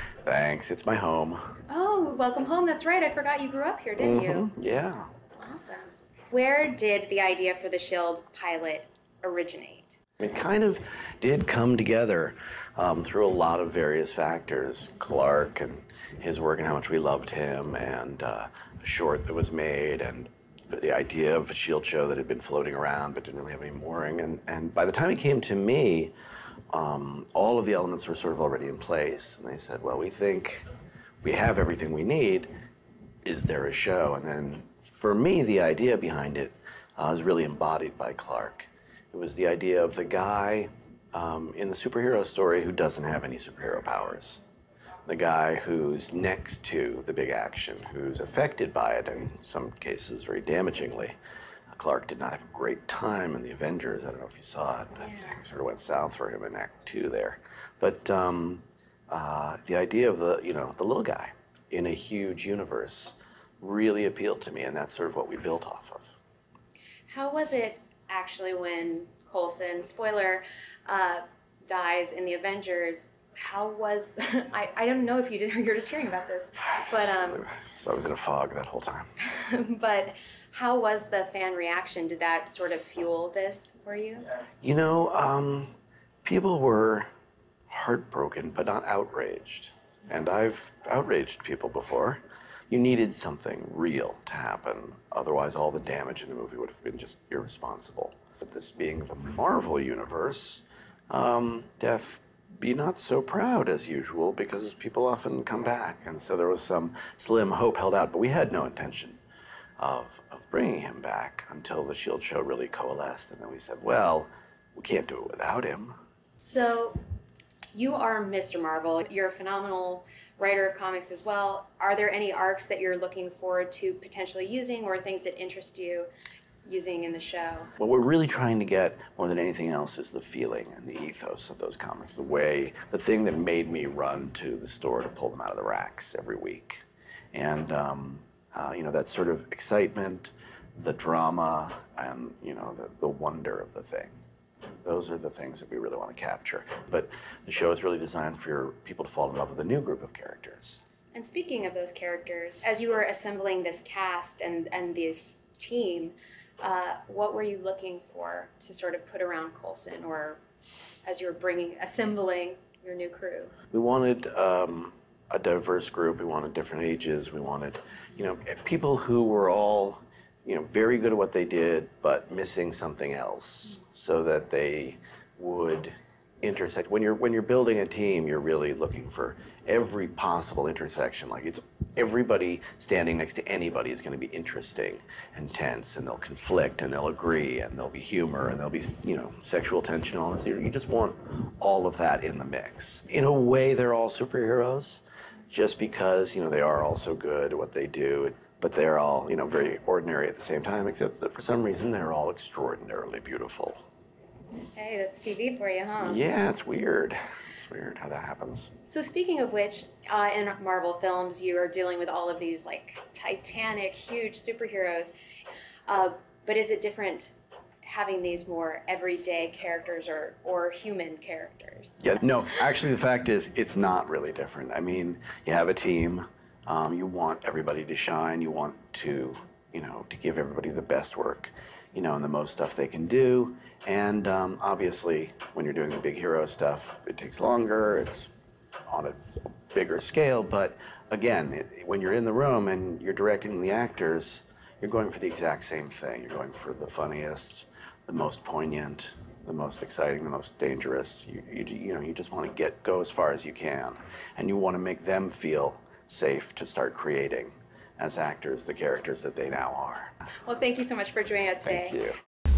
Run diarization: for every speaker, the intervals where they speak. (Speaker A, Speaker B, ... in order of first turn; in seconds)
Speaker A: 0.2-1.6, 4.0-5.1, 10.2-26.1, 26.7-30.6, 31.2-32.5, 33.2-44.4, 45.1-51.1, 51.7-66.1, 76.8-79.1, 84.6-85.7, 86.2-87.1, 87.7-109.2, 109.8-116.0, 127.8-144.2, 144.8-150.8, 163.7-203.8, 206.0-208.7, 222.0-238.3, 238.9-239.2, 239.7-260.1, 261.6-262.2
Speaker B: 1.7-4.5, 5.4-10.0, 55.0-55.4, 67.1-77.4, 79.2-84.2, 116.4-117.0, 117.7-126.1, 126.6-127.7, 151.1-160.4, 161.1-163.5, 204.7-206.2, 208.8-215.1, 215.9-222.0, 260.4-262.0